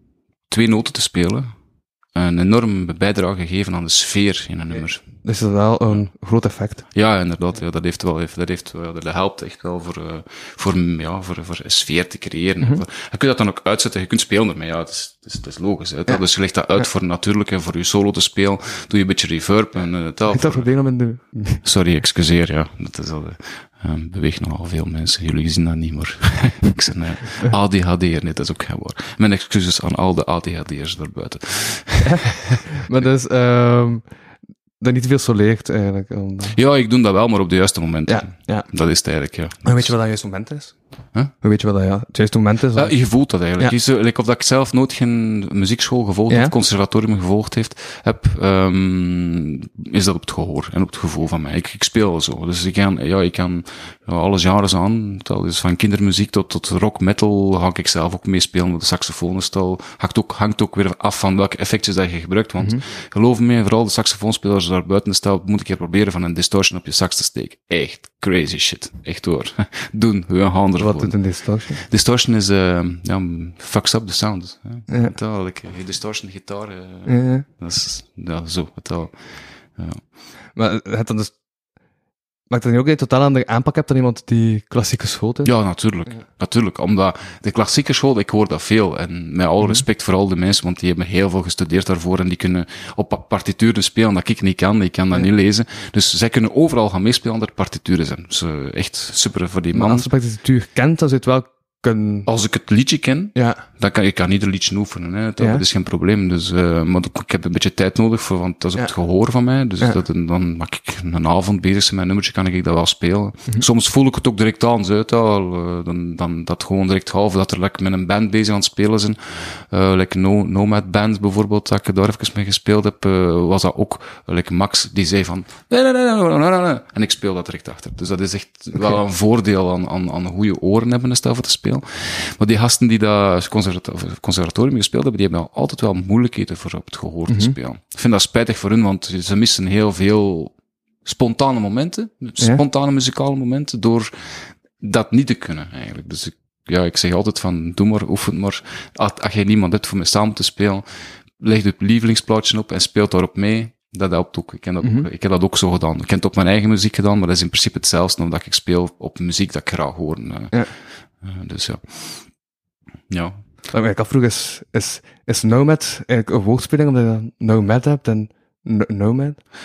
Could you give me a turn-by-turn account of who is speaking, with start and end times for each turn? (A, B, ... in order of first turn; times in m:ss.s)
0:00.5-0:01.5 A
0:02.1-0:05.1 A
0:05.2-0:06.8 B
0:06.9-0:20.7 A
0:20.3-0:21.6 B
0:21.6-0:32.6 A
0:32.7-0:34.1 B
0:34.8-0:36.6 B
0:36.5-0:39.9 A
0:38.1-0:38.7 B
0:39.6-0:40.8 B
0:41.3-0:43.8 B
0:42.7-1:20.0 A
0:46.3-0:46.5 B
1:10.8-1:11.8 B
1:14.9-1:15.1 B
1:17.0-1:17.4 B
1:20.5-1:21.3 B
1:22.5-1:25.5 B
1:25.4-1:40.1 A
1:39.7-1:42.3 B
1:42.2-2:42.4 A
1:43.3-1:43.6 B
1:45.4-1:45.6 B
2:17.3-2:17.5 B
2:34.8-2:35.1 B
2:43.1-2:43.4 A
2:43.7-2:49.4 B